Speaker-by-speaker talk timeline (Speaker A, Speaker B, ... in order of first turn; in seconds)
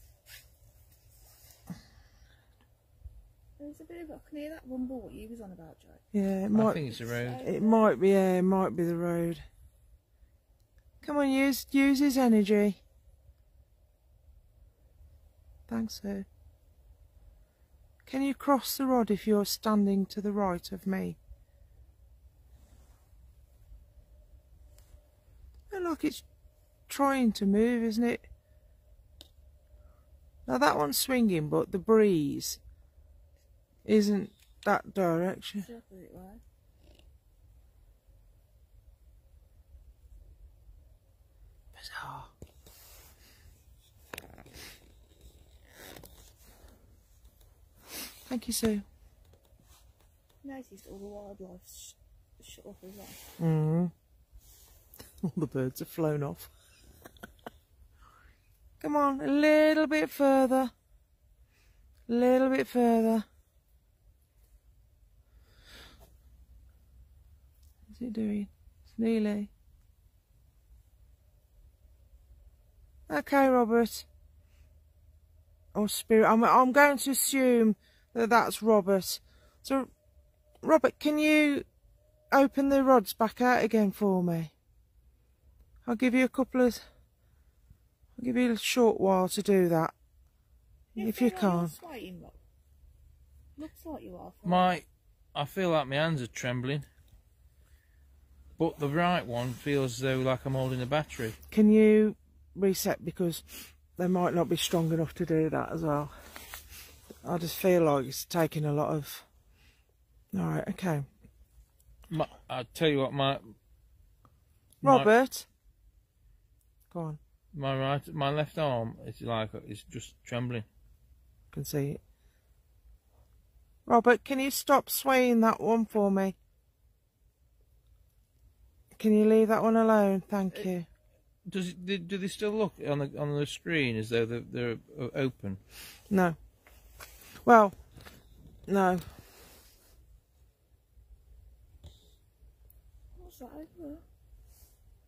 Speaker A: 3.6-6.0, 7.1-7.8, 35.6-36.4, 50.4-53.2, 91.0-92.4, 93.6-94.8, 143.2-144.0
Speaker B: 6.1-6.8, 7.4-9.4, 11.0-12.8, 15.7-16.3, 18.1-21.2, 25.7-26.2, 26.9-28.3, 30.5-32.6, 33.9-35.7, 41.8-42.3, 48.3-48.9, 53.4-53.9, 55.2-56.5, 58.8-60.7, 62.1-63.3, 67.9-69.5, 73.1-74.1, 75.7-79.9, 80.6-81.7, 82.3-84.5, 85.8-86.8, 88.2-89.9, 91.0-91.7, 101.5-106.2, 107.2-109.3, 110.3-111.1, 114.8-115.5, 116.9-117.2, 121.5-122.0, 123.9-126.4, 129.0-130.9, 136.1-136.4, 137.4-137.8, 138.7-139.1
Speaker C: 6.5-7.5, 94.4-96.9, 98.6-101.4, 112.1-113.5, 114.8-115.1, 117.5-120.7, 131.4-135.6